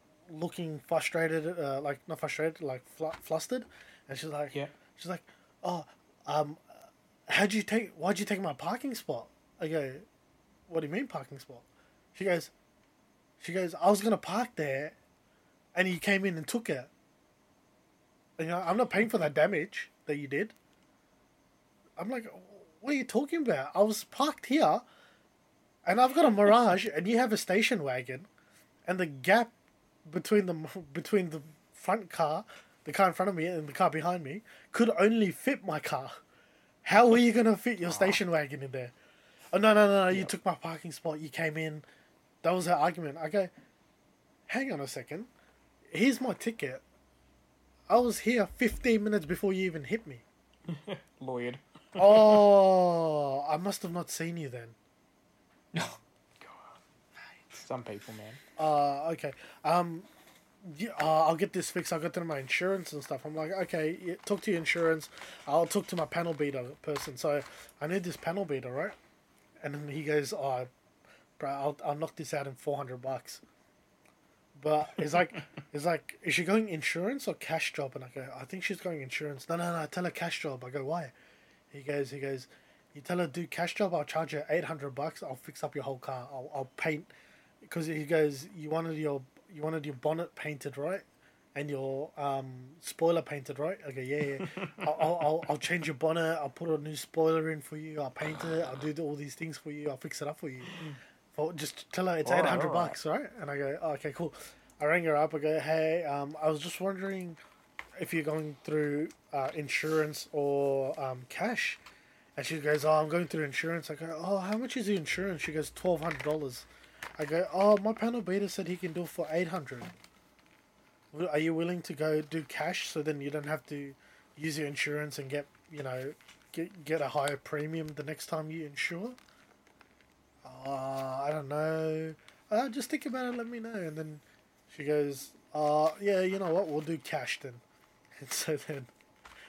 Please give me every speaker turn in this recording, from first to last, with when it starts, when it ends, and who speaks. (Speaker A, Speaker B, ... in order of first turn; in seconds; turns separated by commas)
Speaker A: 0.3-6.6, Speaker A: 7.3-10.1, Speaker A: 10.7-12.5, Speaker A: 13.4-14.9, Speaker A: 15.8-16.9, Speaker A: 18.4-20.5, Speaker A: 22.0-24.8, Speaker A: 25.9-28.3, Speaker A: 28.9-29.5, Speaker A: 30.1-36.2, Speaker A: 36.8-38.9, Speaker B: 37.9-38.2, Speaker A: 39.5-41.8, Speaker A: 42.4-43.5, Speaker A: 44.5-45.3, Speaker A: 45.9-46.8, Speaker A: 47.9-50.2, Speaker B: 50.7-52.5, Speaker A: 52.0-54.8, Speaker B: 56.4-56.7, Speaker B: 57.6-58.4, Speaker A: 58.6-60.1, Speaker A: 60.6-69.0, Speaker A: 69.6-70.7, Speaker A: 71.4-73.4, Speaker A: 74.6-81.1, Speaker A: 81.7-87.1, Speaker A: 87.7-91.0, Speaker A: 91.5-100.7, Speaker A: 101.3-107.4, Speaker B: 102.2-103.0, Speaker A: 108.0-111.8, Speaker A: 112.4-116.7, Speaker A: 117.2-119.9, Speaker A: 121.1-129.2, Speaker A: 130.4-137.6, Speaker A: 138.2-138.9